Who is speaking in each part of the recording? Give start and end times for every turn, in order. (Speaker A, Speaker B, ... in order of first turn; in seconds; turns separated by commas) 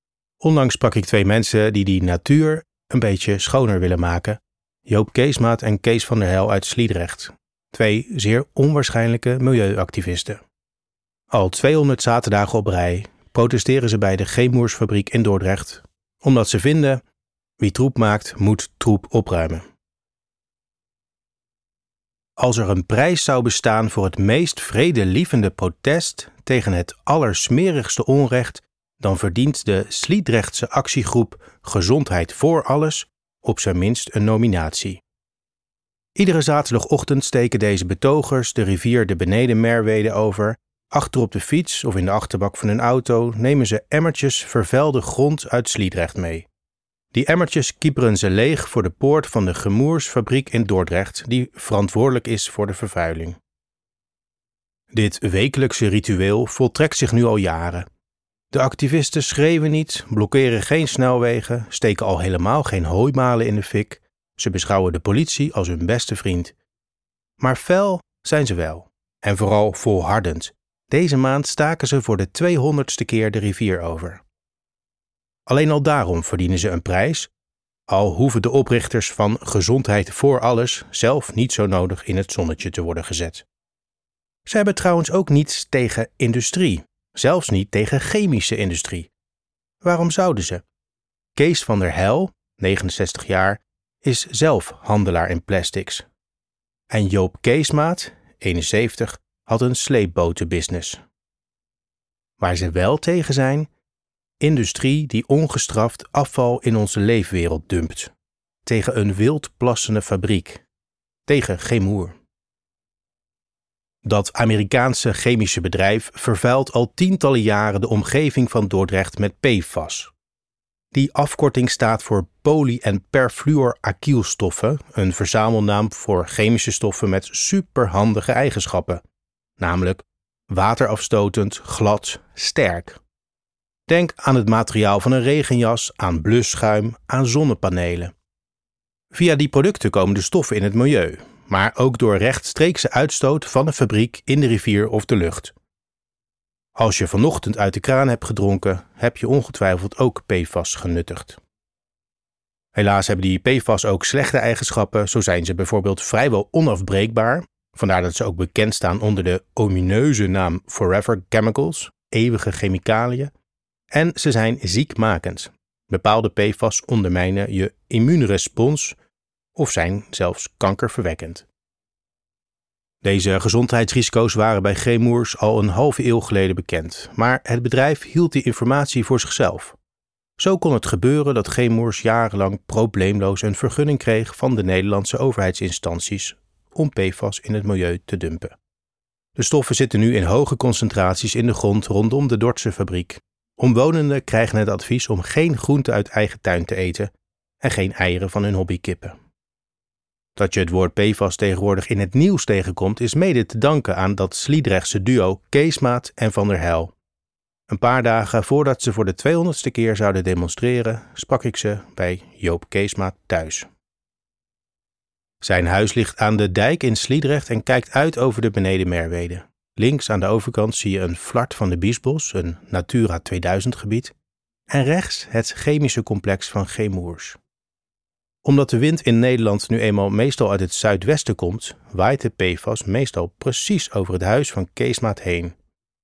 Speaker A: 0.4-10.4, Speaker A: 11.3-17.0, Speaker A: 17.6-19.6, Speaker A: 22.4-35.0, Speaker A: 36.1-46.5, Speaker A: 47.1-53.4, Speaker A: 54.9-57.9, Speaker A: 58.5-66.5, Speaker A: 67.4-74.2, Speaker A: 75.5-77.3, Speaker A: 77.9-83.5, Speaker A: 84.5-89.1, Speaker A: 89.8-90.6, Speaker A: 91.3-96.0, Speaker A: 96.9-101.0, Speaker A: 102.4-103.7, Speaker A: 104.4-108.1, Speaker A: 108.6-110.6, Speaker A: 111.2-112.1, Speaker A: 114.0-120.1, Speaker A: 120.9-129.0, Speaker A: 129.6-133.0, Speaker A: 133.9-138.1, Speaker A: 139.1-145.5, Speaker A: 146.8-151.4, Speaker A: 152.7-163.3, Speaker A: 163.9-168.9, Speaker A: 169.5-171.5, Speaker A: 173.0-179.8, Speaker A: 180.4-188.5, Speaker A: 189.3-199.2, Speaker A: 200.3-206.9, Speaker A: 207.7-213.7, Speaker A: 215.4-224.1, Speaker A: 224.7-227.4, Speaker A: 228.4-235.5